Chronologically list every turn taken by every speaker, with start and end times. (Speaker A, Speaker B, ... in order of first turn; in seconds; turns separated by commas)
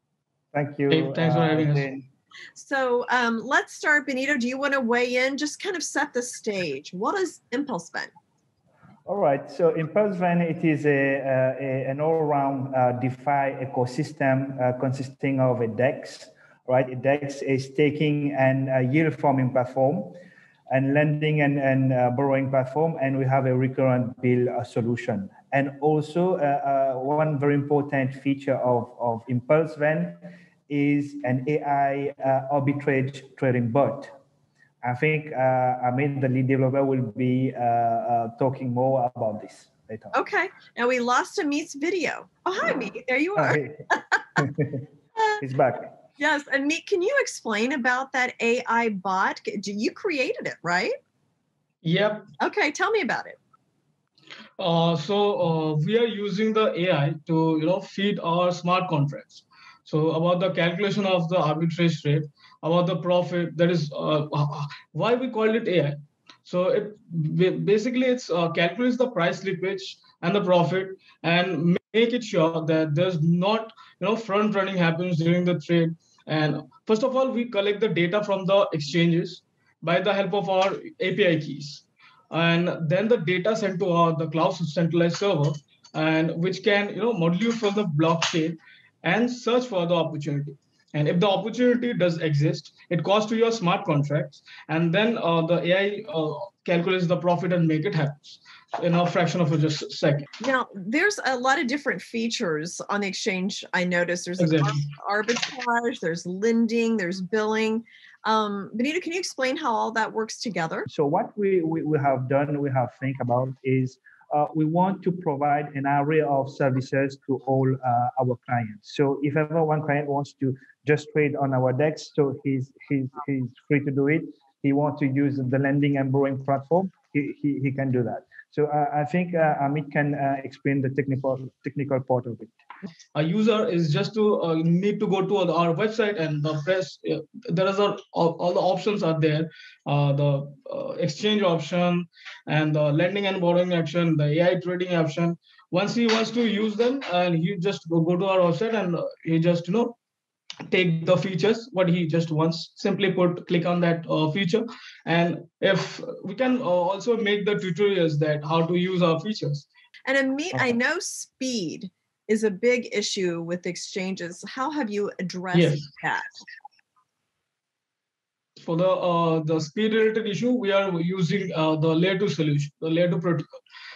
Speaker A: 0.5-2.1, Speaker B: 0.9-1.8, Speaker C: 2.5-8.1, Speaker A: 9.1-20.2, Speaker A: 20.7-34.1, Speaker A: 34.8-40.1, Speaker C: 40.1-44.2, Speaker A: 43.4-43.8, Speaker A: 44.4-44.8, Speaker A: 45.4-45.9, Speaker C: 46.2-51.0, Speaker B: 51.8-52.3, Speaker C: 52.4-53.4, Speaker B: 54.6-100.3, Speaker C: 100.4-110.9, Speaker B: 104.4-104.8, Speaker A: 110.9-132.5, Speaker B: 133.1-149.9, Speaker B: 150.7-159.7, Speaker C: 160.0-166.4, Speaker B: 165.5-165.8, Speaker B: 168.6-173.4